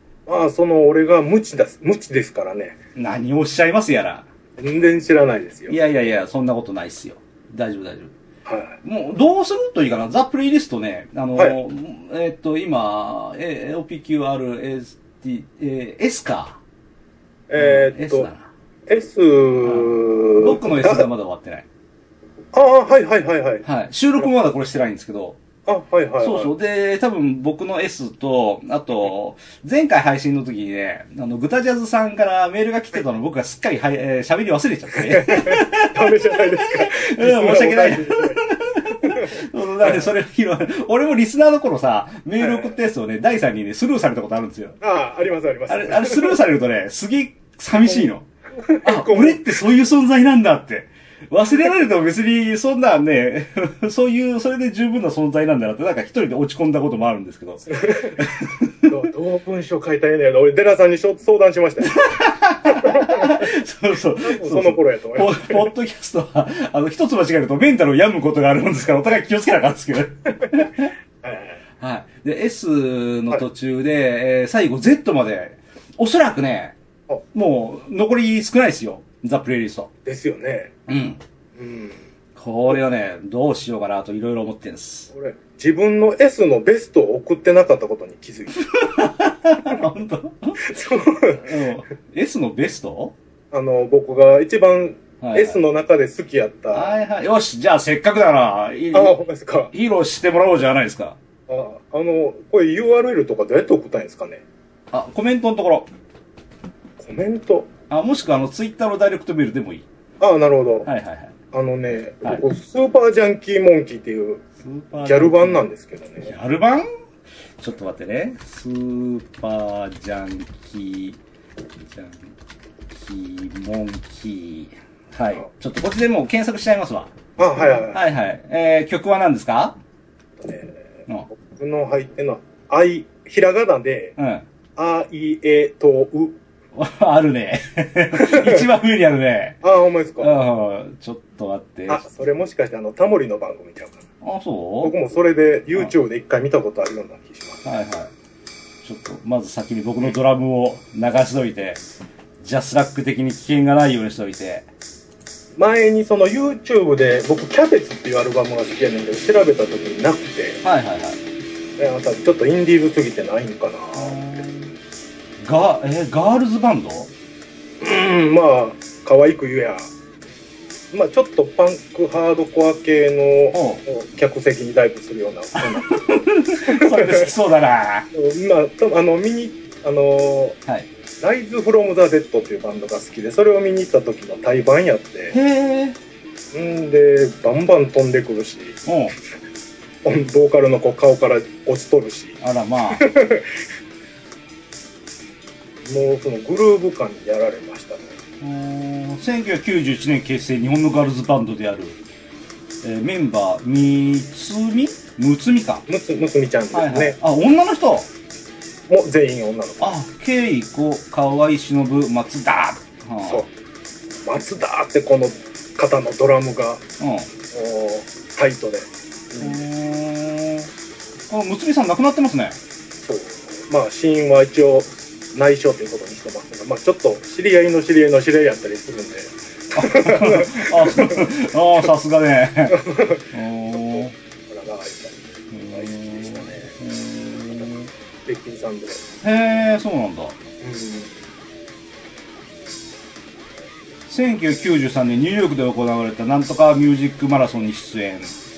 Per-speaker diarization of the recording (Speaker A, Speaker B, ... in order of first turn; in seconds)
Speaker A: 0.3-2.8, 4.6-5.8, 8.4-8.8, 17.5-18.3, 18.9-21.1, 22.5-23.6, 25.7-26.5, 35.0-38.4, 39.0-40.0, 44.8-46.4, 48.6-49.5, 57.8-58.2, 58.8-62.1, 62.7-63.5, 64.2-65.7, 71.2-71.6, 80.0-80.7, 81.6-82.1, 85.1-88.7, 90.6-91.5, 93.5-96.9, 98.9-99.7, 101.5-104.4, 107.0-107.7, 110.2-110.9, 111.5-114.4, 115.0-116.3, 127.4-128.0, 130.4-134.2, 134.8-136.4, 138.1-138.7, 139.6-140.4, 141.9-144.1, 144.8-147.6, 155.6-160.6, 161.8-164.2, 167.8-169.9, 170.9-177.3, 178.1-180.6, 181.2-185.4, 186.5-188.8, 190.0-192.4, 192.9-193.5, 195.8-198.1, 205.9-207.2, 208.9-209.9, 214.2-216.8, 217.5-219.7, 223.0-231.3, 232.7-235.2, 235.7-236.7, 238.3-239.0, 240.6-241.1
Speaker B: 3.0-4.3, 5.7-8.2, 8.8-16.6, 17.6-18.5, 19.6-21.7, 23.6-25.4, 26.2-44.8, 45.7-48.3, 48.8-58.9, 61.9-70.9, 71.8-76.8, 77.3-79.9, 80.9-81.2, 82.3-85.1, 88.6-90.6, 91.3-93.1, 95.2-95.6, 96.7-99.1, 99.7-101.2, 104.9-105.9, 107.9-109.9, 110.8-111.3, 114.6-115.6, 116.2-116.9, 117.6-121.2, 121.9-122.3, 122.9-127.1, 127.9-129.8, 134.2-134.5, 136.8-139.6, 140.2-142.1, 144.2-144.9, 147.6-148.1, 148.8-151.8, 152.4-154.7, 160.6-161.2, 163.9-164.7, 165.4-167.1, 173.5-173.8, 175.6-178.1, 185.3-186.0, 188.8-189.2, 192.4-193.1, 198.4-202.0, 202.8-205.8, 206.7-208.1, 209.8-213.5, 217.0-217.3, 219.4-220.7, 221.3-222.6, 229.7-234.2, 235.5-237.9, 239.2-240.4, 244.1-248.3